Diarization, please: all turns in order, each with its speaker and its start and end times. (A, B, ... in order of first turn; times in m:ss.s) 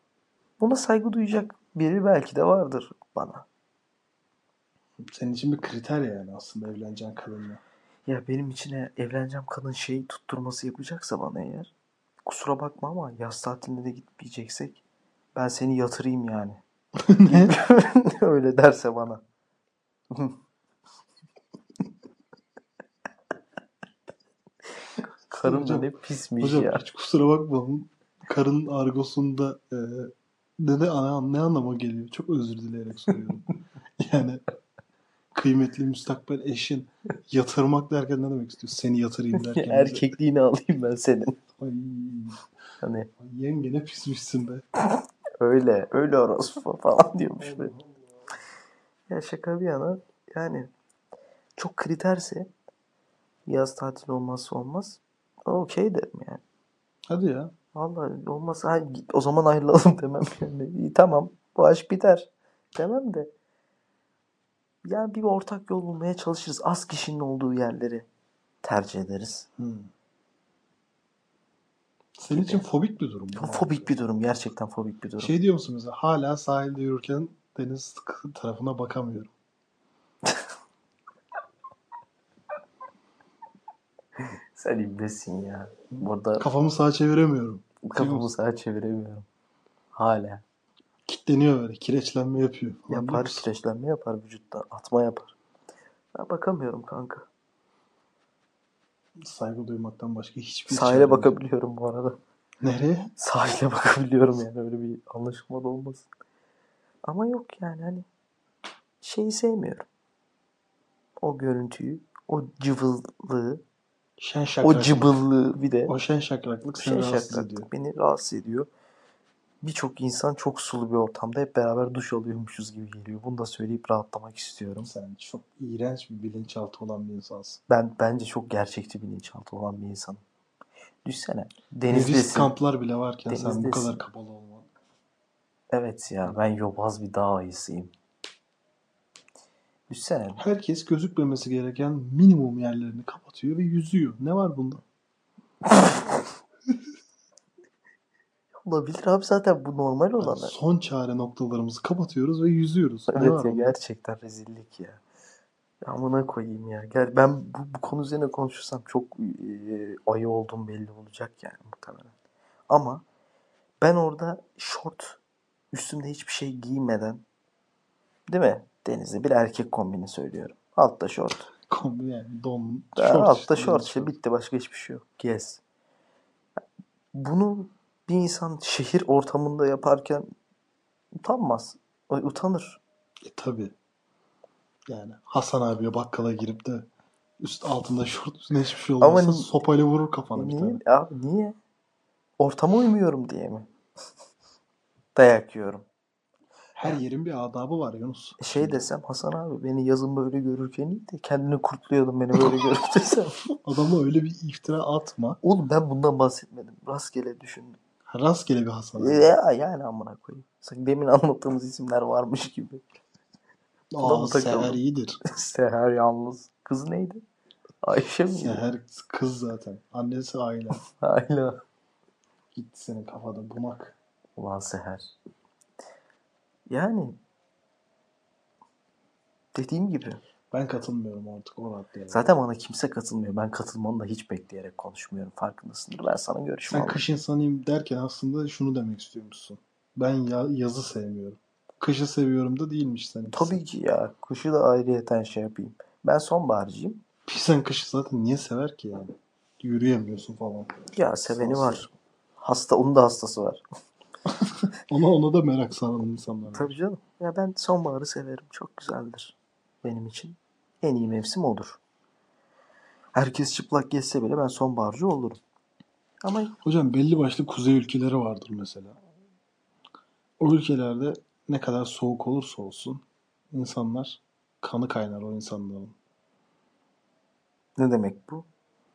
0:00.6-0:03.4 A
0:05.0-0:07.6 B
0:08.0-0:11.7 A
0:12.2-0:14.8 A
0:15.3-0:16.6 A
0:17.0-0:17.6 B
0:17.2-0:19.2 A
0:20.1-0:20.4 A
0:25.3-0:26.8 A
0:25.4-0:34.4 B
0:35.3-0:40.1 B
0:39.4-0:41.4 A
0:41.5-0:42.4 B
0:42.8-0:43.1 A
0:43.2-0:44.6 B
0:45.4-0:47.7 A
0:47.4-0:48.0 B
0:49.1-0:50.7 A
0:51.6-0:52.5 A
0:53.5-0:56.4 A
0:57.1-0:57.5 B
0:57.7-1:03.3 A
1:04.8-1:08.1 A
1:08.6-1:09.5 A
1:09.6-1:09.9 B
1:12.2-1:13.9 B
1:12.3-1:12.6 A
1:13.3-1:15.3 A
1:15.2-1:19.3 B
1:24.2-1:26.4 A
1:26.0-1:28.3 B
1:27.8-1:29.2 A
1:29.9-1:30.4 A
1:31.1-1:33.5 B
1:32.9-1:35.3 A
1:36.1-1:37.3 A
1:39.2-1:41.4 B
1:40.7-1:42.2 A
1:42.6-1:43.1 B
1:43.2-1:46.1 A
1:47.0-1:48.0 A
1:49.0-1:49.9 A
1:51.2-1:53.6 A
1:54.2-1:55.2 B
1:54.6-1:55.9 A
1:55.8-1:57.7 B
1:56.7-1:58.7 A
1:59.6-2:04.9 A
2:04.8-2:07.6 B
2:07.7-2:10.2 A
2:11.0-2:12.5 A
2:11.9-2:14.7 B
2:13.3-2:14.0 A
2:15.7-2:17.9 A
2:19.9-2:20.4 A
2:20.4-2:24.8 B
2:28.6-2:30.5 A
2:30.2-2:33.8 B
2:33.1-2:35.0 A
2:35.8-2:42.1 A
2:42.7-2:43.0 A
2:43.8-2:45.2 A
2:45.7-2:47.2 A
2:48.3-2:51.5 A
2:51.7-2:54.1 B
2:53.0-2:55.6 A
2:57.1-3:00.3 A
3:01.1-3:02.8 A
3:03.2-3:03.7 B
3:04.9-3:06.9 B
3:07.4-3:10.8 B
3:09.0-3:09.5 A
3:10.3-3:11.6 A
3:12.4-3:13.7 A
3:15.1-3:15.8 A
3:16.7-3:18.8 B
3:18.4-3:23.5 A
3:23.5-3:25.4 B
3:25.4-3:27.8 A
3:28.0-3:29.3 B
3:29.0-3:32.8 A
3:33.9-3:35.2 B
3:34.0-3:37.2 A
3:37.8-3:38.6 A
3:38.3-3:40.8 B
3:40.8-3:41.6 A
3:42.5-3:44.0 B
3:44.4-3:45.0 A
3:46.7-3:47.2 A
3:49.5-3:50.2 A
3:50.5-3:52.3 B
3:52.1-3:57.0 A
3:56.7-4:03.6 B
4:03.3-4:07.0 A
4:07.3-4:11.9 B
4:10.9-4:13.6 A
4:14.2-4:16.7 B
4:16.5-4:21.8 A
4:23.1-4:25.4 A
4:26.2-4:26.5 A
4:26.6-4:29.0 B
4:30.4-4:35.9 B
4:37.8-4:38.5 A